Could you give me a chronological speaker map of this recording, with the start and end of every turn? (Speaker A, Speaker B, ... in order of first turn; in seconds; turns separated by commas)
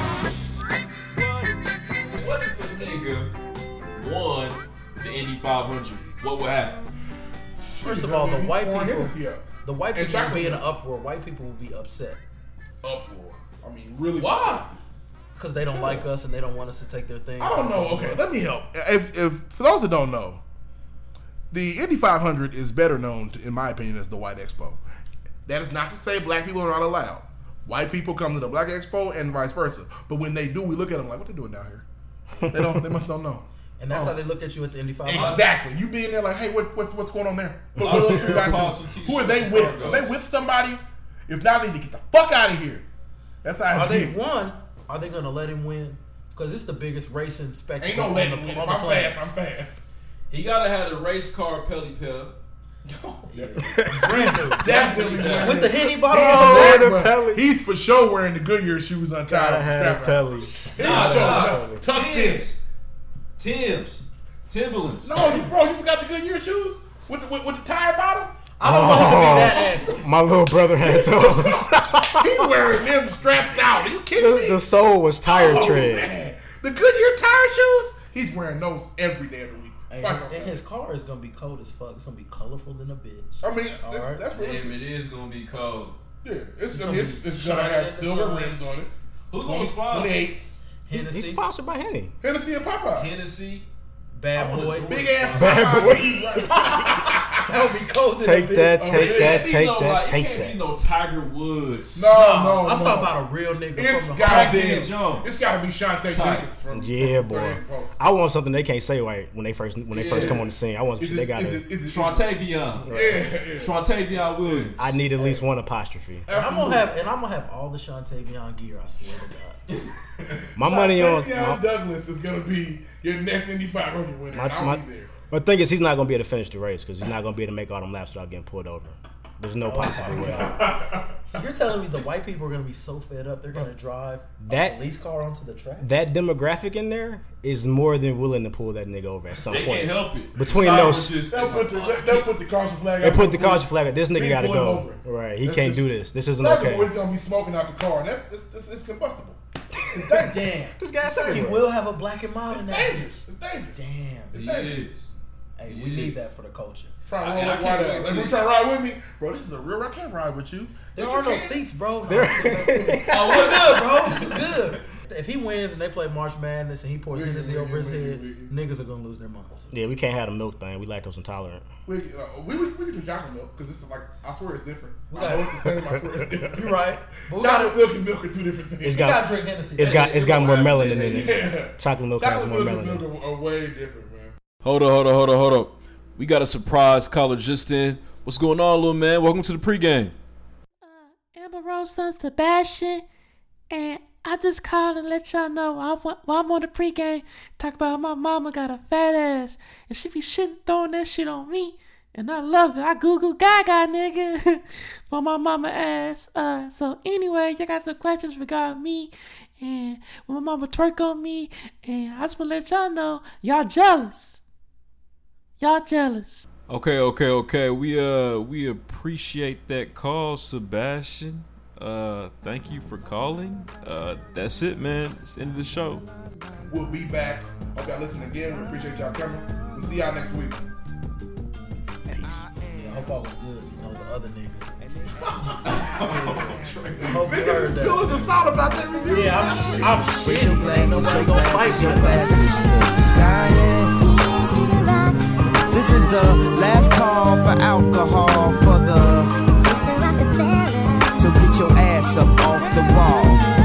Speaker A: 1.1-3.3, Speaker A: 3.9-6.8, Speaker B: 7.7-10.7, Speaker C: 7.8-12.2, Speaker B: 12.8-14.8, Speaker A: 14.1-14.7, Speaker C: 15.3-18.2, Speaker B: 15.7-16.1, Speaker B: 17.4-20.4, Speaker B: 21.5-24.8, Speaker B: 25.4-31.8, Speaker D: 32.4-33.0, Speaker B: 32.5-34.2, Speaker C: 33.8-35.5, Speaker B: 35.0-42.8, Speaker A: 35.1-35.5, Speaker D: 37.7-38.7, Speaker A: 37.8-40.2, Speaker B: 43.4-44.1, Speaker C: 43.7-49.2, Speaker B: 47.8-49.8, Speaker A: 50.3-52.3, Speaker B: 52.8-62.5, Speaker C: 53.3-56.9, Speaker D: 53.6-54.6, Speaker A: 54.6-55.7, Speaker D: 55.9-57.4, Speaker D: 59.2-61.8, Speaker A: 60.8-62.6, Speaker A: 63.4-65.3, Speaker B: 65.0-68.4, Speaker C: 68.6-70.0, Speaker D: 68.6-72.8, Speaker B: 69.0-69.8, Speaker B: 70.8-74.6, Speaker D: 74.1-76.1, Speaker B: 75.2-80.6, Speaker C: 79.9-84.2, Speaker B: 83.4-84.8, Speaker A: 84.3-86.0, Speaker B: 86.2-90.6, Speaker C: 86.7-88.6, Speaker A: 89.3-90.3, Speaker C: 90.8-91.4, Speaker D: 90.9-92.1, Speaker B: 92.2-93.2, Speaker A: 92.9-93.7, Speaker C: 94.1-94.9, Speaker A: 94.3-96.0, Speaker B: 94.9-97.5, Speaker D: 95.3-97.0, Speaker C: 96.5-96.9, Speaker C: 97.4-98.9, Speaker D: 98.2-100.6, Speaker B: 98.8-99.5, Speaker A: 98.9-102.2, Speaker B: 101.9-103.1, Speaker C: 102.1-104.6, Speaker B: 103.7-108.0, Speaker A: 104.2-105.5, Speaker A: 106.1-106.5, Speaker D: 106.7-111.7, Speaker A: 109.9-110.5, Speaker B: 110.1-110.5, Speaker B: 111.0-112.3, Speaker A: 111.8-112.9, Speaker D: 112.9-113.3, Speaker B: 112.9-113.8, Speaker A: 113.6-114.8, Speaker B: 114.4-114.7, Speaker D: 114.8-116.2, Speaker B: 116.3-116.9, Speaker C: 116.3-119.6, Speaker D: 120.5-121.6, Speaker B: 120.6-125.1, Speaker D: 124.3-130.8, Speaker C: 129.6-130.6, Speaker B: 130.0-130.8, Speaker A: 130.5-130.8, Speaker C: 131.2-135.9, Speaker D: 134.4-134.8, Speaker D: 135.8-141.1, Speaker A: 139.3-142.3, Speaker B: 140.5-145.9, Speaker D: 143.0-146.9, Speaker B: 146.4-149.4, Speaker D: 149.7-151.7, Speaker B: 150.0-150.4, Speaker C: 150.0-154.4, Speaker B: 152.4-153.8, Speaker B: 154.3-154.9, Speaker A: 154.3-155.1, Speaker C: 155.6-156.9, Speaker A: 155.7-156.2, Speaker B: 157.1-161.6, Speaker A: 157.2-158.5, Speaker C: 160.9-169.7, Speaker D: 162.1-163.8, Speaker A: 163.1-164.8, Speaker B: 167.1-168.5, Speaker D: 169.7-171.7, Speaker B: 171.8-176.8, Speaker C: 175.1-175.6, Speaker D: 176.2-176.4, Speaker C: 176.5-177.8, Speaker B: 177.4-179.2, Speaker D: 178.8-179.2, Speaker C: 178.9-180.0, Speaker D: 179.8-183.1, Speaker A: 179.8-181.3, Speaker B: 181.1-184.3, Speaker A: 184.6-190.1, Speaker E: 190.8-193.0, Speaker E: 193.7-214.4, Speaker E: 215.6-216.4, Speaker A: 216.7-226.1, Speaker B: 226.7-230.7, Speaker D: 232.1-232.5, Speaker C: 232.7-238.3, Speaker B: 235.2-235.6, Speaker A: 235.6-237.2, Speaker B: 237.0-240.1, Speaker C: 239.1-242.6, Speaker F: 240.1-244.2, Speaker F: 245.7-250.0, Speaker F: 251.2-253.4